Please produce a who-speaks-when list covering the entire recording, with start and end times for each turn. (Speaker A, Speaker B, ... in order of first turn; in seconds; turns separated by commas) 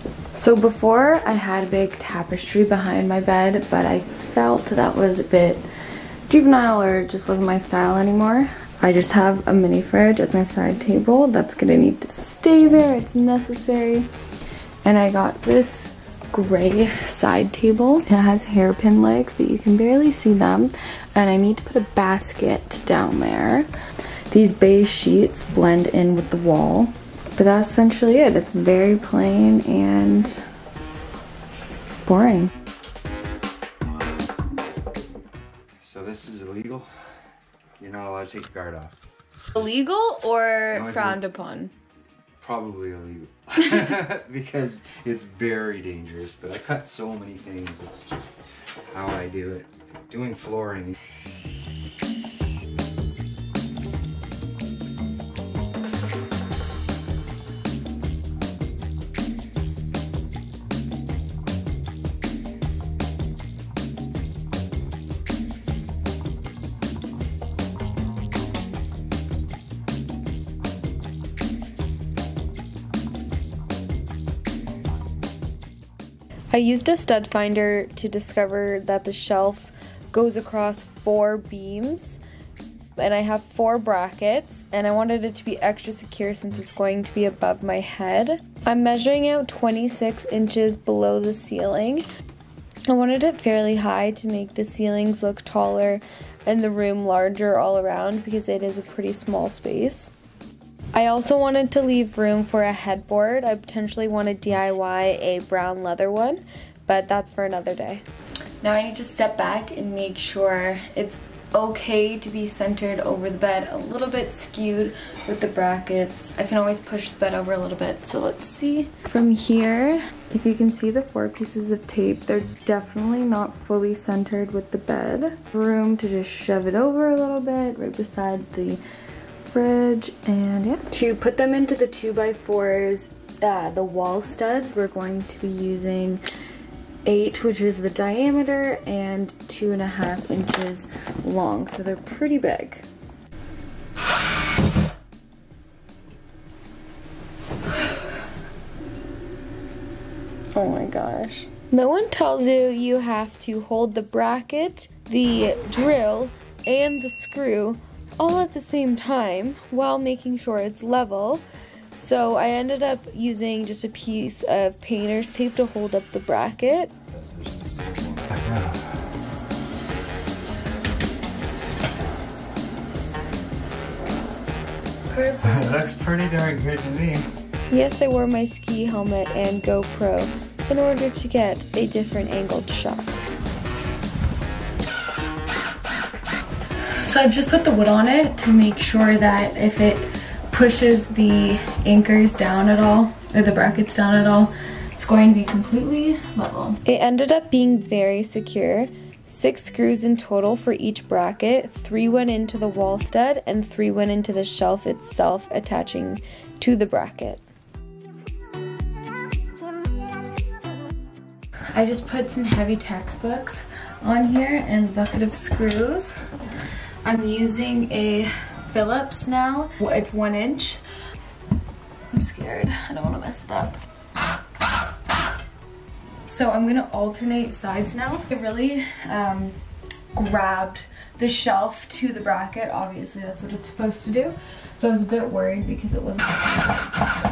Speaker A: 0.3-5.6, Speaker A: 6.3-14.1, Speaker A: 14.8-23.7, Speaker A: 24.3-30.4, Speaker A: 32.0-32.5, Speaker B: 35.8-36.9, Speaker B: 37.8-39.0, Speaker A: 39.6-41.7, Speaker B: 40.7-41.2, Speaker B: 42.4-48.4, Speaker B: 48.9-51.0, Speaker A: 76.5-82.2, Speaker A: 83.0-92.1, Speaker A: 92.9-100.1, Speaker A: 100.9-108.0, Speaker A: 108.6-128.8, Speaker A: 129.5-136.2, Speaker A: 137.1-142.8, Speaker A: 150.6-166.9, Speaker B: 167.1-168.8, Speaker A: 175.1-175.7, Speaker B: 175.4-177.3, Speaker A: 177.7-183.3, Speaker A: 187.0-207.4, Speaker A: 211.7-216.1, Speaker A: 217.0-220.8, Speaker A: 222.1-223.8, Speaker A: 226.3-229.6, Speaker A: 230.1-236.4